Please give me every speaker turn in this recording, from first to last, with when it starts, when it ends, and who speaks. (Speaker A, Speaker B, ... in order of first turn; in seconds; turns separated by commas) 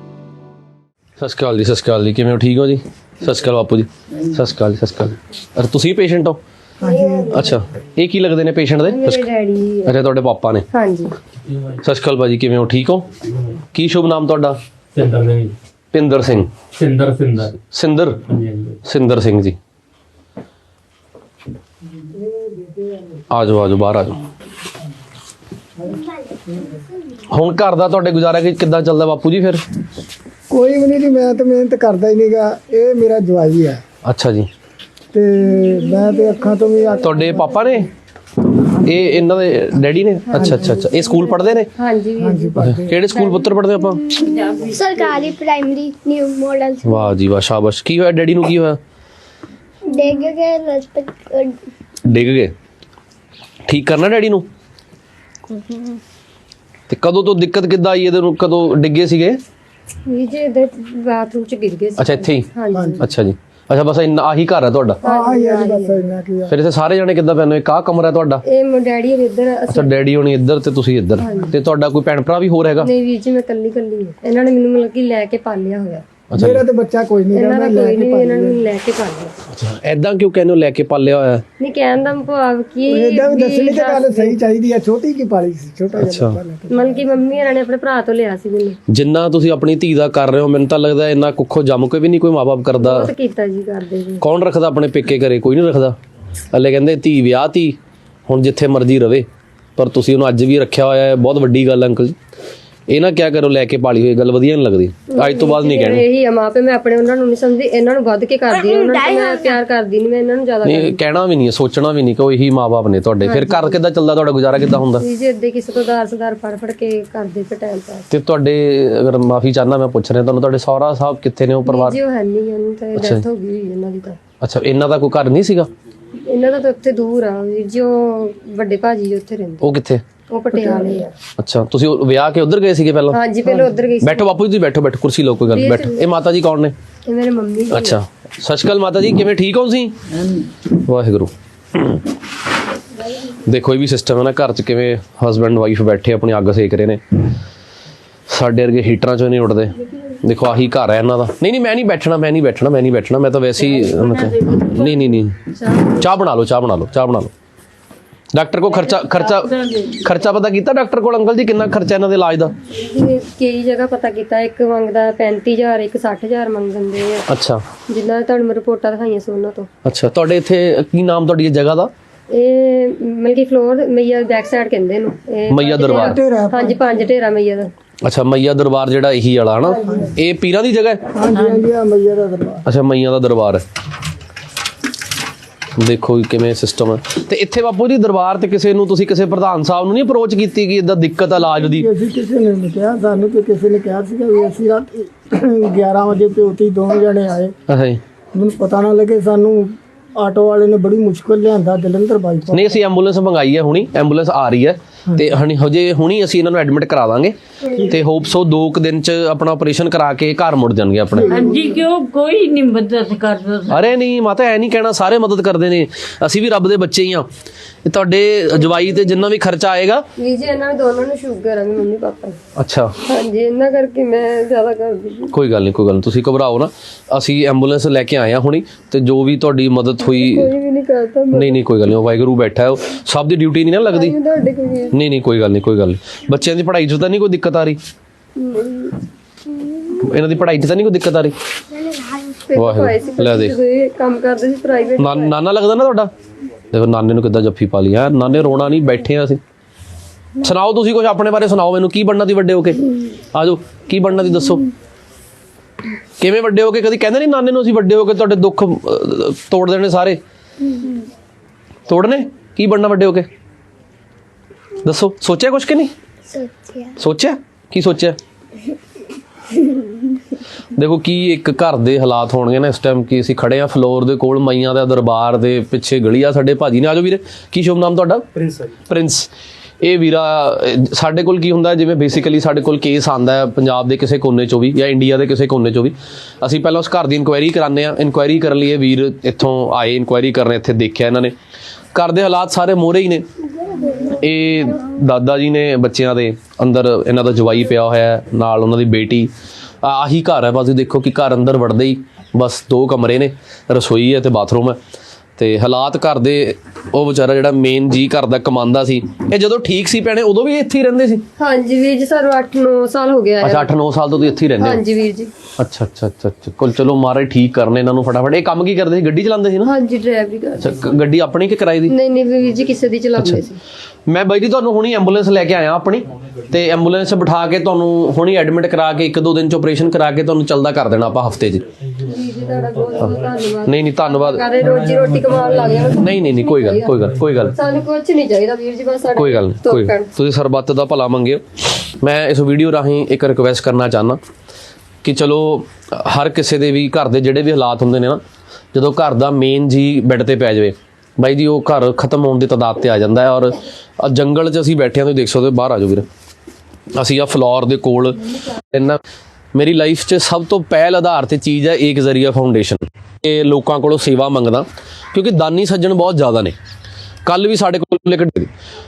Speaker A: 1.2-6.4, Speaker B: 6.8-7.5, Speaker C: 6.8-7.6, Speaker A: 7.3-9.2, Speaker C: 8.8-9.9, Speaker A: 9.9-10.7, Speaker C: 10.7-11.1, Speaker D: 11.5-11.8, Speaker A: 11.8-13.1, Speaker D: 13.3-13.6, Speaker A: 13.7-14.6, Speaker D: 14.9-15.5, Speaker A: 15.9-16.5, Speaker D: 16.7-17.6, Speaker A: 17.7-18.2, Speaker D: 18.2-18.8, Speaker A: 18.8-19.6, Speaker B: 22.1-23.2, Speaker A: 23.3-24.2, Speaker A: 27.3-29.6, Speaker B: 30.5-33.8, Speaker A: 34.0-34.5, Speaker B: 35.1-37.6, Speaker A: 37.0-37.9, Speaker A: 38.8-41.7, Speaker C: 40.3-40.9, Speaker B: 40.3-40.8, Speaker C: 41.8-43.5, Speaker B: 42.2-42.9, Speaker A: 42.6-44.3, Speaker E: 44.3-44.9, Speaker F: 44.7-47.1, Speaker A: 46.8-48.8, Speaker F: 49.9-51.6, Speaker A: 52.0-52.5, Speaker A: 53.7-54.5, Speaker F: 55.6-55.9, Speaker A: 56.9-59.4, Speaker C: 60.1-63.1, Speaker A: 62.0-62.5, Speaker B: 62.7-63.0, Speaker A: 63.0-65.0, Speaker C: 65.0-66.0, Speaker B: 65.0-66.5, Speaker A: 66.5-68.4, Speaker C: 68.5-69.9, Speaker A: 69.7-72.9, Speaker C: 71.2-71.5, Speaker C: 72.8-76.0, Speaker A: 76.3-76.6, Speaker B: 76.4-78.7, Speaker C: 77.3-79.3, Speaker A: 79.5-81.4, Speaker C: 81.6-84.4, Speaker B: 82.9-87.0, Speaker A: 86.0-86.4, Speaker C: 86.7-88.8, Speaker A: 88.9-93.1, Speaker C: 92.8-94.2, Speaker A: 94.2-96.0, Speaker A: 96.5-97.8, Speaker A: 98.3-99.3, Speaker A: 99.8-102.2, Speaker A: 102.9-106.0, Speaker C: 105.1-111.0, Speaker E: 108.7-109.5, Speaker A: 110.6-115.0, Speaker C: 113.2-113.8, Speaker C: 115.0-118.1, Speaker A: 118.1-122.0, Speaker C: 121.7-124.2, Speaker A: 123.0-123.2, Speaker A: 124.4-125.7, Speaker C: 126.3-129.6, Speaker A: 129.6-130.0, Speaker C: 130.3-131.1, Speaker A: 131.4-133.2, Speaker C: 133.1-134.3, Speaker A: 134.0-136.7, Speaker C: 135.5-136.0, Speaker C: 137.1-138.0, Speaker A: 137.7-139.9, Speaker A: 140.7-142.0, Speaker A: 143.4-147.0, Speaker A: 148.3-155.3, Speaker E: 153.6-155.2, Speaker C: 155.6-155.9, Speaker A: 155.9-157.3, Speaker A: 158.3-159.5, Speaker E: 158.8-160.1, Speaker A: 160.0-162.5, Speaker C: 162.7-167.2, Speaker A: 167.3-167.6, Speaker C: 167.9-169.7, Speaker A: 169.8-171.9, Speaker C: 172.3-177.7, Speaker A: 175.5-176.2, Speaker B: 175.8-176.9, Speaker A: 178.0-181.0, Speaker C: 179.7-180.1, Speaker B: 181.1-182.6, Speaker E: 181.3-181.6, Speaker A: 182.6-183.6, Speaker A: 185.8-191.9, Speaker B: 191.6-197.5, Speaker A: 197.7-198.0, Speaker B: 198.3-202.8, Speaker A: 202.5-211.3, Speaker B: 205.1-205.3, Speaker B: 211.1-211.8, Speaker E: 211.3-213.8, Speaker A: 213.7-217.3, Speaker A: 217.8-220.1, Speaker C: 220.2-222.4, Speaker A: 222.6-222.9, Speaker C: 223.1-225.3, Speaker A: 225.3-230.5, Speaker C: 230.0-231.6, Speaker A: 231.3-234.2, Speaker C: 233.9-234.9, Speaker A: 234.9-237.8, Speaker C: 238.4-239.0, Speaker A: 240.0-241.3, Speaker C: 242.5-245.3, Speaker A: 242.6-243.6, Speaker A: 245.0-246.1, Speaker A: 246.7-249.4, Speaker A: 250.4-254.7, Speaker A: 256.2-260.2, Speaker A: 261.9-263.3, Speaker A: 264.8-265.9, Speaker F: 266.3-266.9, Speaker A: 267.0-268.2, Speaker A: 270.8-278.2, Speaker A: 278.9-279.3, Speaker A: 279.8-291.3, Speaker A: 291.9-293.2, Speaker A: 294.1-299.3, Speaker A: 299.8-304.8, Speaker A: 305.4-311.2, Speaker C: 311.4-313.7, Speaker A: 313.4-314.8, Speaker C: 314.6-315.3, Speaker A: 315.6-319.7, Speaker C: 319.6-320.7, Speaker A: 320.6-321.9, Speaker C: 321.9-323.6, Speaker A: 324.1-331.6, Speaker C: 332.1-340.1, Speaker A: 333.0-334.4, Speaker A: 336.0-337.6, Speaker A: 339.1-341.4, Speaker A: 342.0-344.2, Speaker A: 345.0-348.2, Speaker A: 348.7-356.1, Speaker A: 356.9-359.0, Speaker A: 359.5-366.6, Speaker A: 367.2-368.5